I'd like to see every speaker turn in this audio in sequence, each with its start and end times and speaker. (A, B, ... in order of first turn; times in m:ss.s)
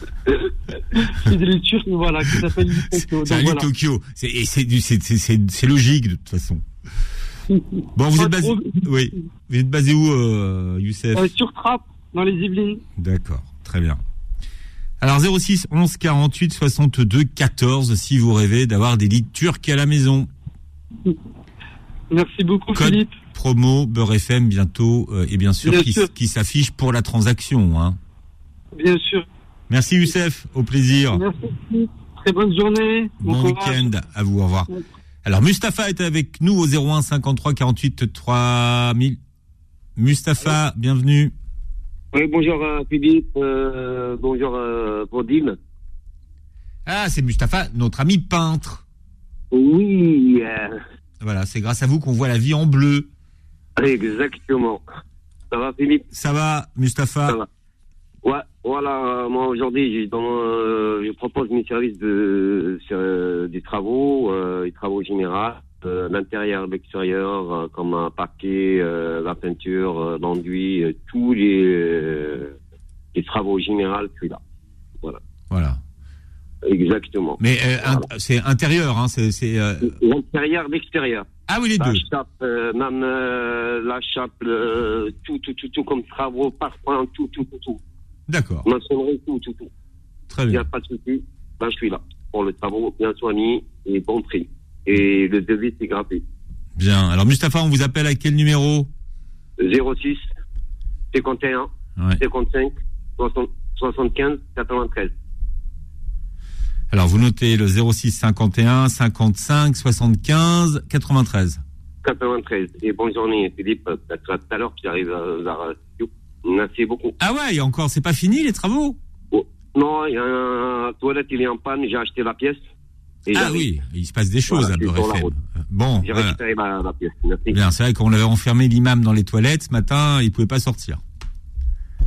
0:00.3-0:03.7 A
0:03.2-0:06.6 B
0:07.5-0:08.9 A
0:07.9-0:11.3 B
0:11.1-0:12.8 A
0:13.0-0:14.0 B
0:15.0-0:20.3 B
0:22.1-0:23.2 A
0:22.7-0:28.0 B
0:25.6-0:26.1 A
0:28.8-0:29.2 A
0:29.7-0:31.2 B
0:31.1-0:33.9 A
0:33.2-0:34.7 B
0:35.2-0:39.2 B
0:40.0-0:41.3 B
0:42.1-0:45.6 C
0:46.8-0:48.8 B
0:49.5-0:50.8 C
0:51.2-0:53.1 B
0:53.8-0:54.8 C
0:55.5-0:56.0 C
0:56.1-0:57.4 B
0:58.2-1:12.5 C
1:13.1-1:14.4 C
1:15.5-1:15.8 B
1:16.6-1:18.0 C
1:17.4-1:19.9 B
1:19.9-1:27.8 C
1:21.5-1:22.0 B
1:28.3-1:28.7 B
1:28.6-1:29.7 C
1:30.3-1:30.6 B
1:30.5-1:36.2 C
1:36.8-1:38.9 B
1:39.6-1:40.2 C
1:41.1-1:45.1 C
1:46.9-1:51.6 B
1:52.0-1:57.1 C
1:57.2-1:59.0 B
1:59.3-2:02.6 C
2:03.3-2:03.6 C
2:03.3-2:06.4 B
2:04.5-2:05.3 C
2:06.0-2:07.6 C
2:07.5-2:11.0 B